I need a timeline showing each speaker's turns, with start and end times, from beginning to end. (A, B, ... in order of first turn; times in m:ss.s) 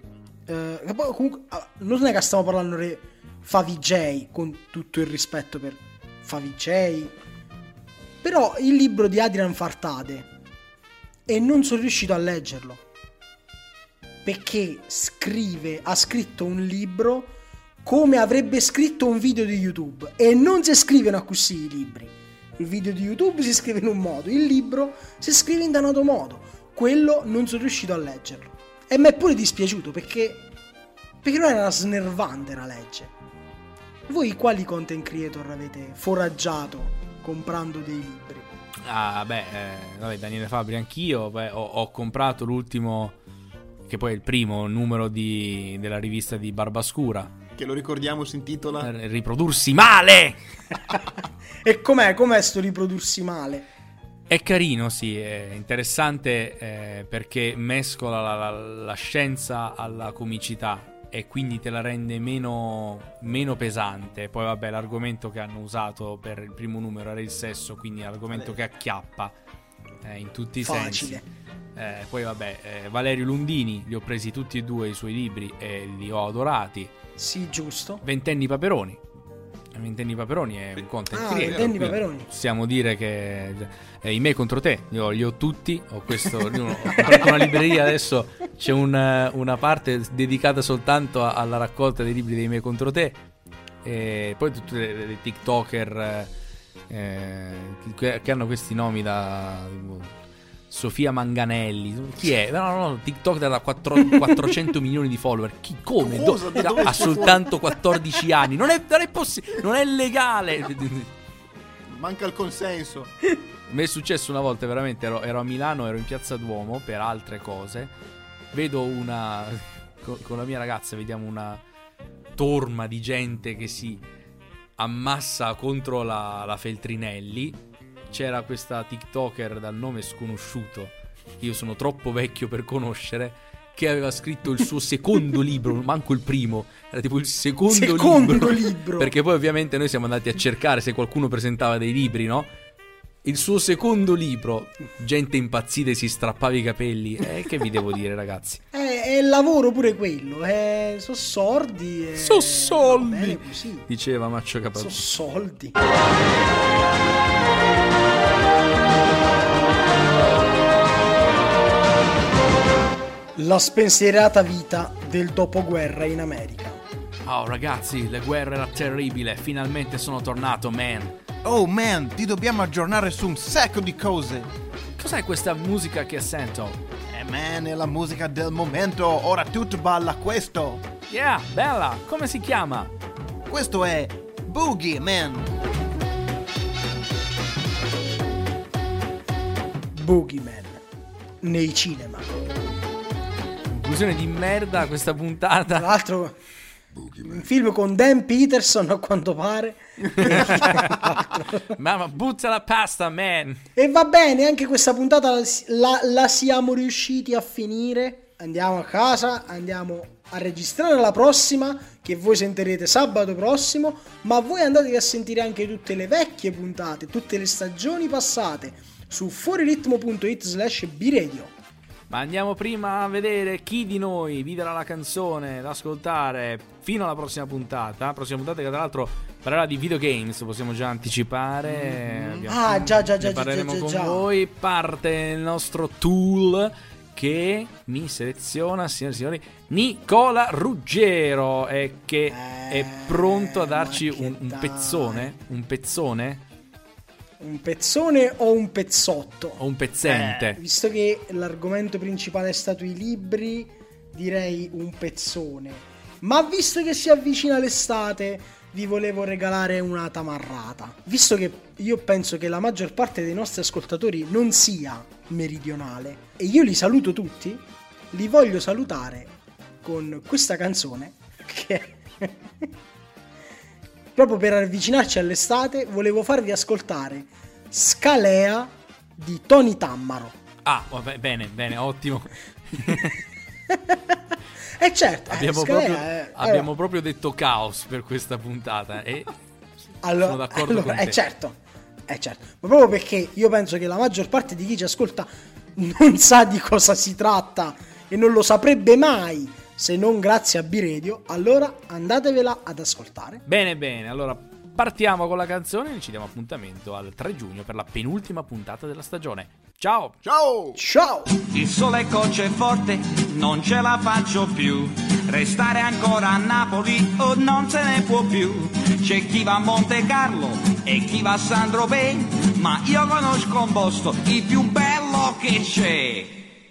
0:00.5-0:07.1 A
0:08.2-0:10.3 A
0:11.3-0:12.8 A
0:14.2-0:17.3 A
0:17.8-0:30.5 A
0:31.2-0:33.1 A
0:34.1-0:38.5 A
0:38.8-0:43.1 B
0:43.9-0:47.3 B
0:47.6-0:48.9 C
0:48.8-0:50.4 B
0:50.9-0:53.7 A
0:54.3-1:09.3 B
1:10.0-1:11.2 B
1:10.6-1:11.2 A
1:11.8-1:16.9 B
1:17.2-1:18.0 A
1:18.0-1:19.0 B
1:19.7-1:33.2 B
1:21.1-1:22.3 A
1:26.9-1:27.6 A
1:33.8-1:36.3 B
1:36.9-1:40.1 B
1:40.7-1:51.1 B
1:46.0-1:47.4 C
1:47.0-1:47.3 A
1:51.9-1:53.1 C
1:53.7-1:57.9 B
1:58.5-2:01.6 B
2:02.4-2:04.0 B
2:04.8-2:07.6 B
2:08.1-2:22.5 B
2:17.7-2:19.1 A
2:23.2-2:28.6 B
2:28.7-2:33.8 A
2:32.2-2:35.0 B
2:34.8-2:35.8 A
2:43.4-2:46.8 A
2:47.3-2:51.2 B
2:51.4-2:54.5 C
2:55.0-2:56.8 B
2:57.1-3:00.8 C
3:01.1-3:02.9 B
3:03.5-3:05.5 C
3:09.9-3:10.8 A
3:11.4-3:12.3 A
3:13.7-3:15.9 B
3:15.7-3:16.4 A
3:17.2-3:21.7 A
3:20.2-3:23.6 B
3:23.8-3:41.5 A
3:42.1-4:06.4 B
3:51.7-3:52.5 C
3:52.5-3:54.3 A
4:02.3-4:05.4 A
4:07.4-4:09.6 A
4:09.6-4:10.6 B
4:10.0-4:10.5 C
4:10.5-4:32.7 A
4:34.2-4:40.4 A
4:40.6-4:43.2 B
4:43.7-4:46.7 A
4:45.3-4:49.3 B
4:50.0-5:03.4 A
4:50.1-4:51.2 B
5:03.5-5:10.2 B
5:10.2-5:10.8 C
5:10.8-5:11.3 A
5:11.5-5:26.4 D